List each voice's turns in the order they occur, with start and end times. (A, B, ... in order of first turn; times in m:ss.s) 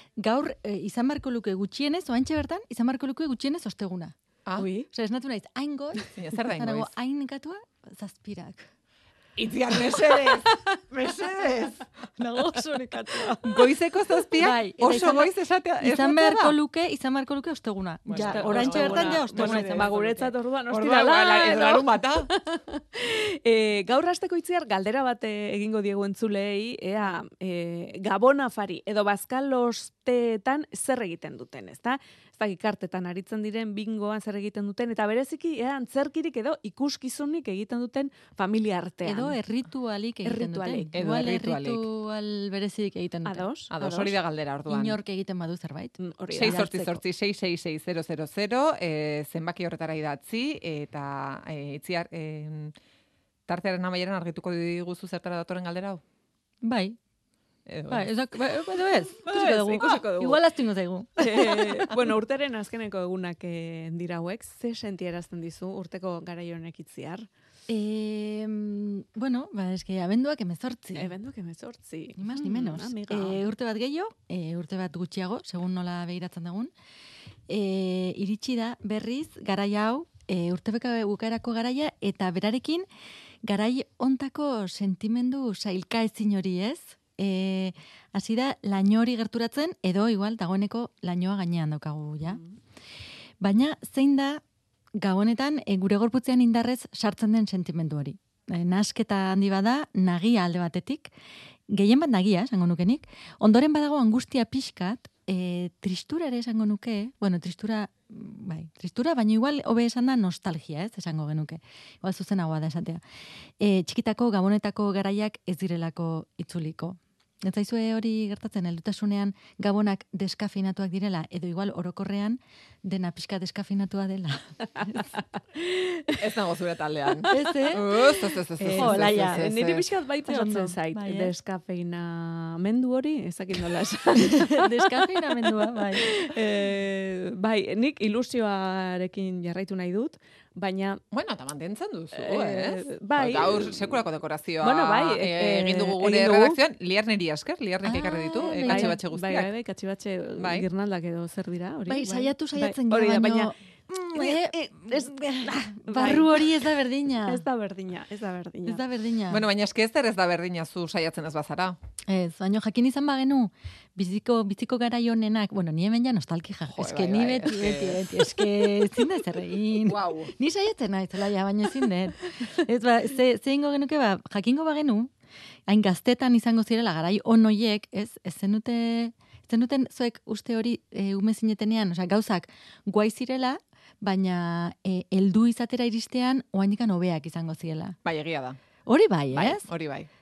0:00.2-0:04.1 A
0:04.6-0:04.9 B
0:04.8-0:08.7 A
0:06.1-0:06.9 C
0:09.4-0:11.9 C
0:12.2-0:13.7 A
0:13.4-0:16.6 C
0:14.4-0:19.9 A
0:18.1-0:22.3 C
0:18.2-0:39.4 B
0:39.0-0:43.4 A
0:40.2-0:40.9 B
0:40.9-0:41.9 C
0:43.2-0:44.2 B
0:43.7-0:45.0 C
0:44.7-0:46.0 A
0:46.0-0:47.0 B
0:46.3-0:52.7 C
0:53.5-0:56.0 C
0:56.6-0:57.0 A
0:57.7-0:58.1 C
0:57.9-1:01.9 A
0:59.3-1:00.4 B
1:01.2-1:07.3 B
1:07.7-1:11.1 A
1:10.9-1:13.4 B
1:12.2-1:16.7 A
1:17.5-1:22.9 A
1:23.4-1:32.4 A
1:32.3-1:32.6 B
1:33.4-1:34.4 A
1:35.0-1:41.1 A
1:41.7-1:53.0 A
1:53.6-2:05.0 A
2:06.2-2:09.8 C
2:07.3-2:08.0 A
2:08.6-2:21.0 B
2:08.7-2:09.4 A
2:10.3-2:11.3 A
2:14.2-2:16.3 A
2:21.1-2:29.5 C
2:22.1-2:24.0 B
2:24.6-2:26.6 B
2:27.8-2:29.0 A
2:28.6-2:33.5 B
2:30.4-2:30.7 C
2:31.9-2:37.4 A
2:34.1-2:36.5 B
2:37.2-2:38.8 B
2:38.7-2:39.4 A
2:39.3-2:41.8 C
2:42.1-2:55.1 A
2:46.7-2:48.8 C
2:49.8-2:50.3 C
2:55.7-3:08.0 A
3:08.0-3:08.6 C
3:08.9-3:09.6 A
3:09.3-3:10.1 C